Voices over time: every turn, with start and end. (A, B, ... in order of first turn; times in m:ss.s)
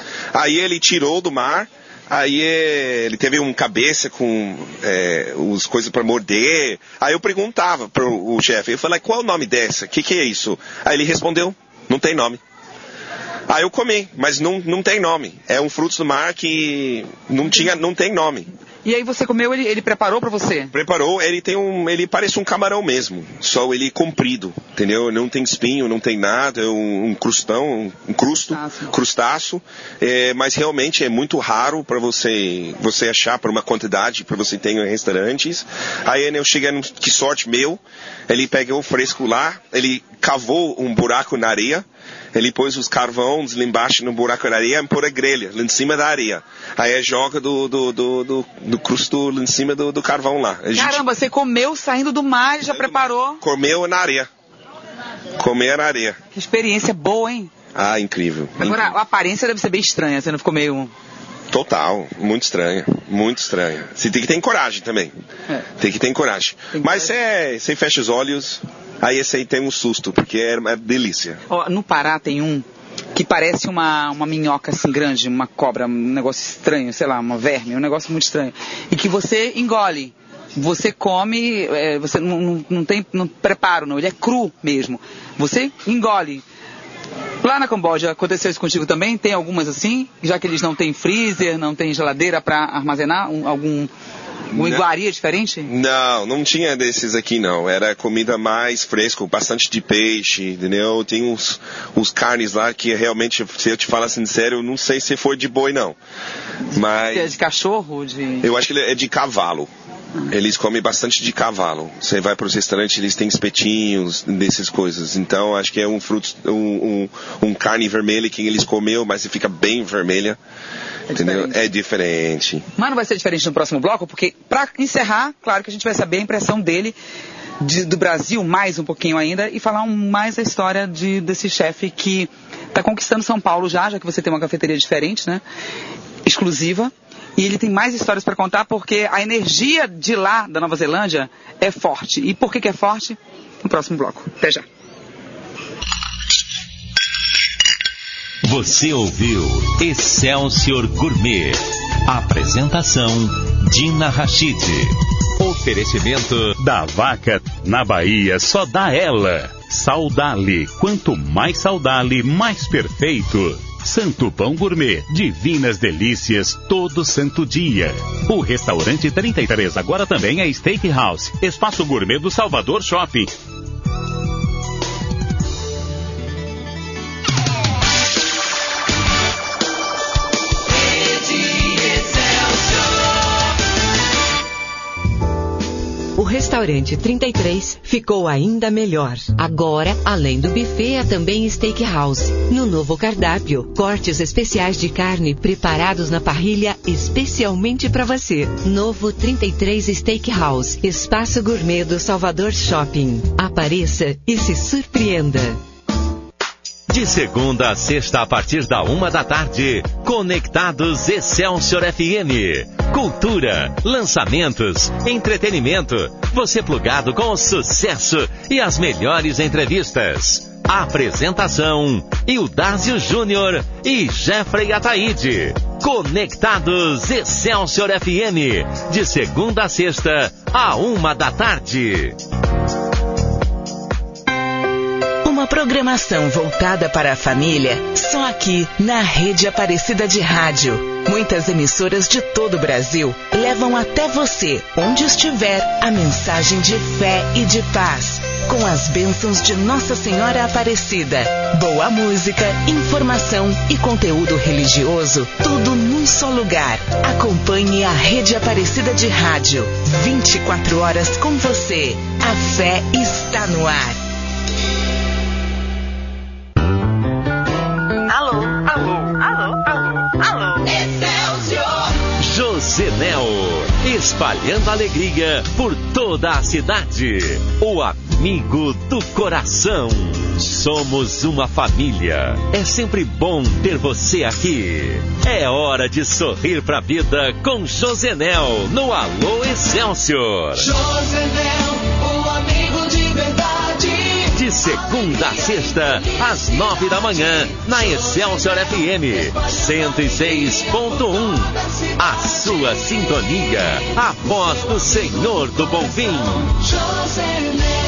0:00.3-0:12.4 A
0:13.5-0:18.5 A
0:18.8-0:20.7 B
0:20.7-0:51.0 A
0:28.5-0:28.9 B
0:50.7-0:53.4 B
0:52.7-0:54.3 A
0:55.4-0:56.2 A
0:56.3-0:57.5 B
0:57.7-0:59.0 A
0:58.6-1:00.9 B
1:01.5-1:05.1 A
1:05.8-1:11.4 A
1:06.7-1:07.1 B
1:11.5-1:26.4 B
1:27.4-1:33.9 B
1:34.5-1:35.7 B
1:34.5-1:34.8 A
1:35.6-1:46.0 A
1:46.7-1:47.3 A
1:47.1-1:48.5 B
1:48.4-1:49.7 A
1:50.3-2:00.4 A
2:01.1-2:01.6 B
2:01.1-2:02.6 A
2:02.8-2:07.0 B
2:07.6-2:15.4 B
2:16.2-2:24.6 B
2:28.4-2:36.6 C
2:36.6-2:53.3 D
3:06.2-3:25.6 E
3:26.9-3:52.2 C
3:55.2-4:24.0 F
4:28.1-4:28.5 F
4:30.6-4:31.7 F
4:32.1-4:50.8 C
4:50.9-4:52.0 G
4:52.5-4:53.7 G
4:54.2-5:06.7 C